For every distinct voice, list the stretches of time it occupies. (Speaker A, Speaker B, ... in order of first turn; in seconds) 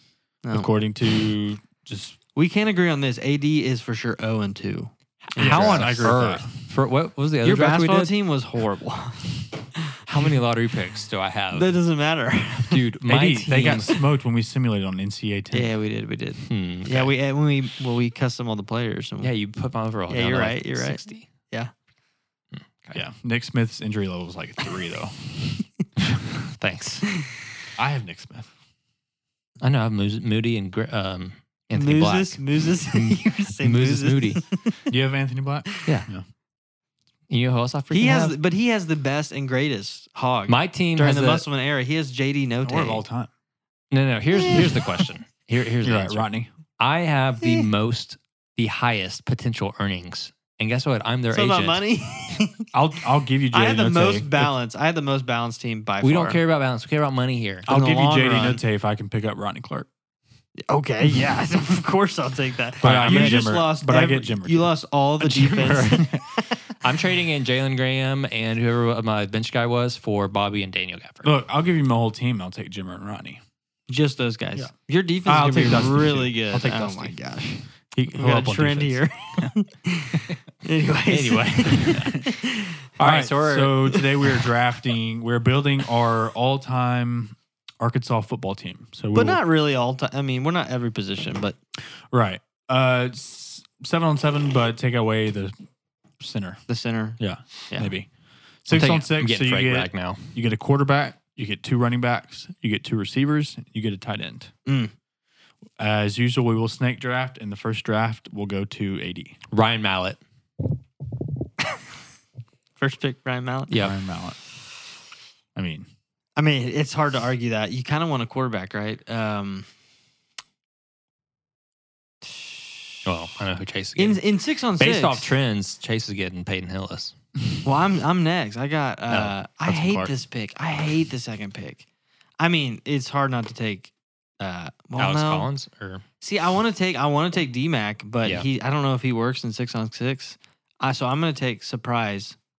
Speaker A: 0.4-0.7, 2.3-5.9, 7.4-10.3, 11.5-12.9, 13.5-14.0, 15.5-19.3, 20.1-21.7, 27.0-27.3, 31.7-34.9, 35.7-36.0, 37.9-43.0, 44.3-45.1, 47.4-47.7, 51.3-52.7, 53.5-56.4, 57.6-58.6, 60.7-66.6, 73.9-82.8, 83.8-84.5, 89.1-91.5, 96.7-97.2, 104.7-104.9, 112.8-113.8, 116.4-119.7, 122.2-123.1, 124.0-125.4, 127.6-131.8, 132.4-135.5, 136.2-142.4
Speaker B: 0.5-2.2, 5.4-6.5, 13.0-15.7, 22.9-25.2, 27.8-28.5, 34.9-36.2, 42.6-43.3, 45.8-46.5, 52.7-54.5, 57.7-59.9, 62.8-66.3, 71.2-73.4, 75.2-77.2, 77.9-79.5, 81.8-82.3, 83.0-89.4, 92.1-95.5, 96.2-96.6, 97.2-98.1, 98.6-104.5, 105.8-109.4, 113.8-114.4, 115.5-115.9
Speaker C: 5.3-8.1, 10.1-11.7, 12.7-13.9, 16.4-17.1, 19.2-21.3, 22.5-23.0, 26.6-27.0, 29.6-34.4, 37.3-38.4, 40.5-41.4, 43.9-46.2, 46.8-51.8, 56.0-57.7, 62.8-63.3, 65.7-66.0, 66.7-71.3, 81.1-82.1, 83.0-83.8, 98.7-100.3, 109.5-110.2, 113.7-114.0, 123.0-124.2, 124.8-127.1, 129.1-130.1, 135.0-136.0